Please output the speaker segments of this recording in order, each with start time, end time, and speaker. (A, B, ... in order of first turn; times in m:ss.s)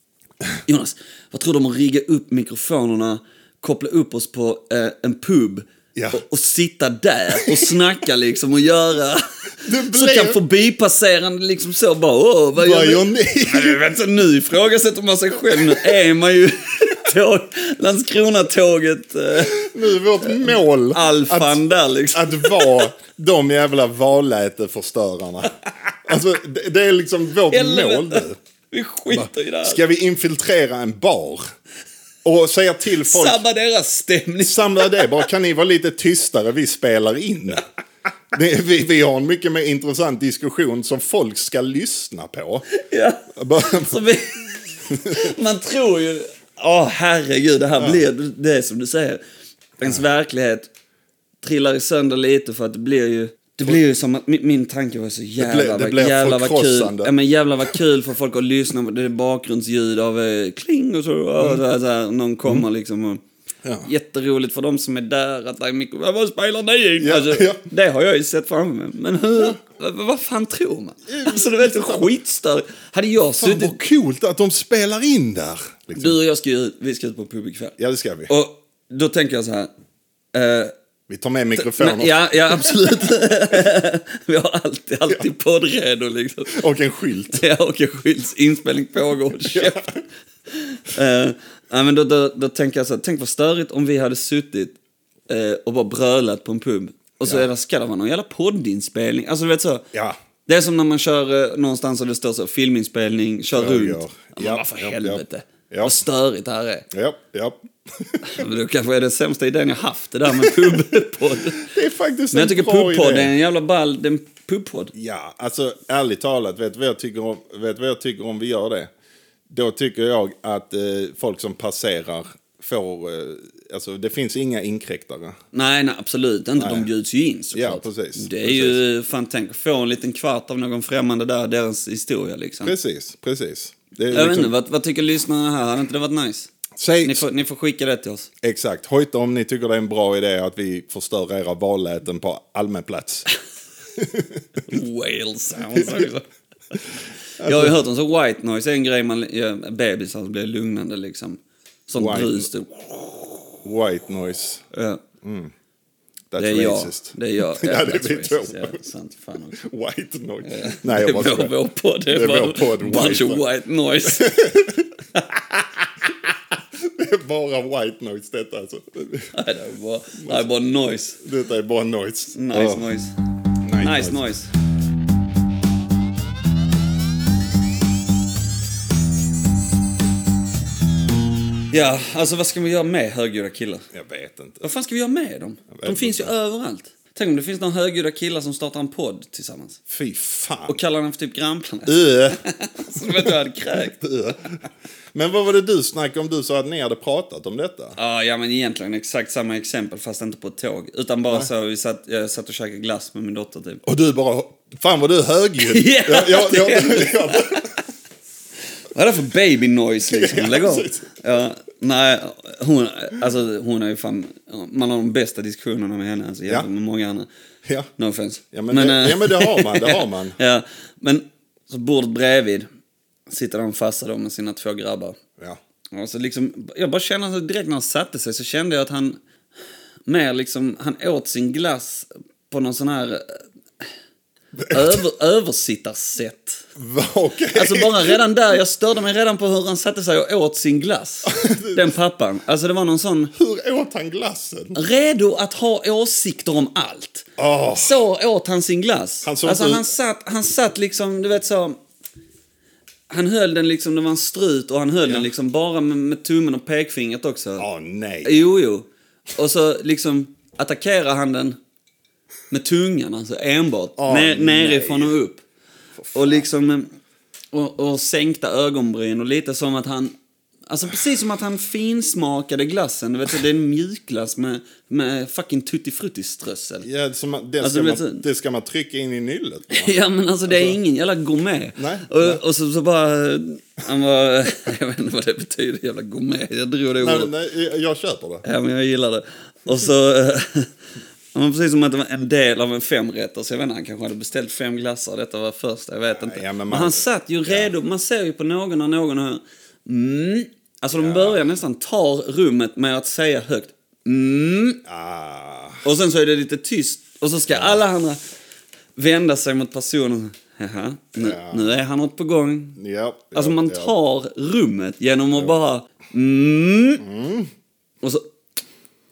0:00.6-0:09.2 A
0:05.9-0:06.2 B
0:07.4-0:07.7 B
0:09.6-0:10.4 B
0:09.9-0:19.7 A
0:12.6-0:13.8 B
0:19.4-0:28.4 B
0:20.2-0:22.9 A
0:27.5-0:29.8 A
0:29.1-0:31.4 B
0:32.2-0:33.4 B
0:33.0-0:35.3 A
0:34.4-0:37.6 B
0:38.3-0:42.7 B
0:42.7-0:49.2 A
0:43.3-0:44.0 B
0:44.9-0:45.3 B
0:47.8-0:48.0 B
0:49.8-0:50.7 A
0:51.4-1:03.2 A
0:55.4-0:57.1 B
1:03.8-1:13.8 A
1:07.0-1:07.6 B
1:11.1-1:12.1 B
1:13.4-1:16.2 B
1:15.9-1:17.8 A
1:17.8-1:18.3 B
1:18.3-1:19.7 A
1:20.3-1:20.7 A
1:21.1-1:22.3 B
1:21.6-1:26.6 A
1:26.5-1:27.4 B
1:27.3-1:29.9 A
1:29.5-1:30.0 B
1:30.5-1:34.8 A
1:35.3-1:39.8 A
1:40.5-1:46.8 A
1:43.5-1:46.0 B
1:46.9-1:48.4 B
1:48.2-1:51.7 A
1:50.3-1:50.8 B
1:51.5-1:53.3 B
1:52.3-1:54.9 A
1:54.9-1:58.9 B
1:59.5-2:05.4 B
2:05.5-2:12.7 A
2:06.6-2:06.9 B
2:07.5-2:08.8 B
2:12.6-2:14.5 B
2:14.1-2:16.5 A
2:16.8-2:17.2 B
2:17.0-2:18.3 A
2:18.4-2:23.3 B
2:24.0-2:24.6 B
2:24.7-2:26.2 A
2:25.7-2:26.1 B
2:27.4-2:27.8 B
2:27.4-2:33.4 A
2:31.9-2:32.5 B
2:33.6-2:34.6 B
2:34.7-2:35.0 A
2:35.2-2:35.5 B
2:36.3-2:38.8 B
2:36.4-2:39.6 A
2:39.5-2:41.5 B
2:40.4-2:44.3 A
2:42.1-2:43.4 B
2:44.0-2:49.3 B
2:49.3-2:51.2 A
2:50.1-2:50.4 B
2:51.2-2:52.8 B
2:52.3-2:53.1 A
2:53.6-2:54.3 B
2:53.8-2:54.5 A
3:01.7-3:03.8 A
3:03.9-3:04.6 B
3:04.6-3:09.8 A
3:05.7-3:06.3 B
3:09.9-3:10.8 B
3:10.7-3:14.0 A
3:11.8-3:13.4 B
3:13.9-3:18.0 B
3:18.0-3:23.8 A
3:23.8-3:27.8 B
3:25.6-3:27.8 A
3:28.9-3:37.3 A
3:30.1-3:31.2 B
3:38.0-3:42.6 A
3:38.5-3:40.4 B
3:43.3-3:45.2 A
3:45.9-3:49.2 A
3:50.0-3:53.9 A
3:54.6-3:55.0 B
3:54.7-3:56.6 A
3:56.8-3:58.2 B
3:57.5-4:03.3 A
4:01.2-4:01.9 B
4:03.3-4:04.8 B
4:04.7-4:11.8 A
4:07.4-4:08.0 B
4:09.2-4:09.9 B
4:13.1-4:17.6 A
4:17.6-4:18.4 B
4:18.2-4:21.6 A
4:22.5-4:25.4 A
4:24.0-4:25.1 B
4:26.0-4:26.5 B
4:26.1-4:26.9 A
4:27.5-4:30.1 A
4:30.7-4:36.8 A
4:36.8-4:39.9 B
4:37.6-4:38.2 A
4:39.7-4:47.3 A
4:40.5-4:40.8 B
4:41.8-4:42.4 B
4:47.0-4:48.4 B
4:48.4-4:50.7 A
4:51.3-5:04.8 A
4:56.1-4:57.7 B
5:00.9-5:01.4 B
5:04.8-5:05.8 B
5:05.8-5:08.2 A
5:07.5-5:07.8 B
5:09.0-5:12.8 A
5:11.2-5:11.8 B
5:12.8-5:13.9 B
5:13.3-5:17.0 A
5:17.0-5:17.5 B
5:18.0-5:18.2 A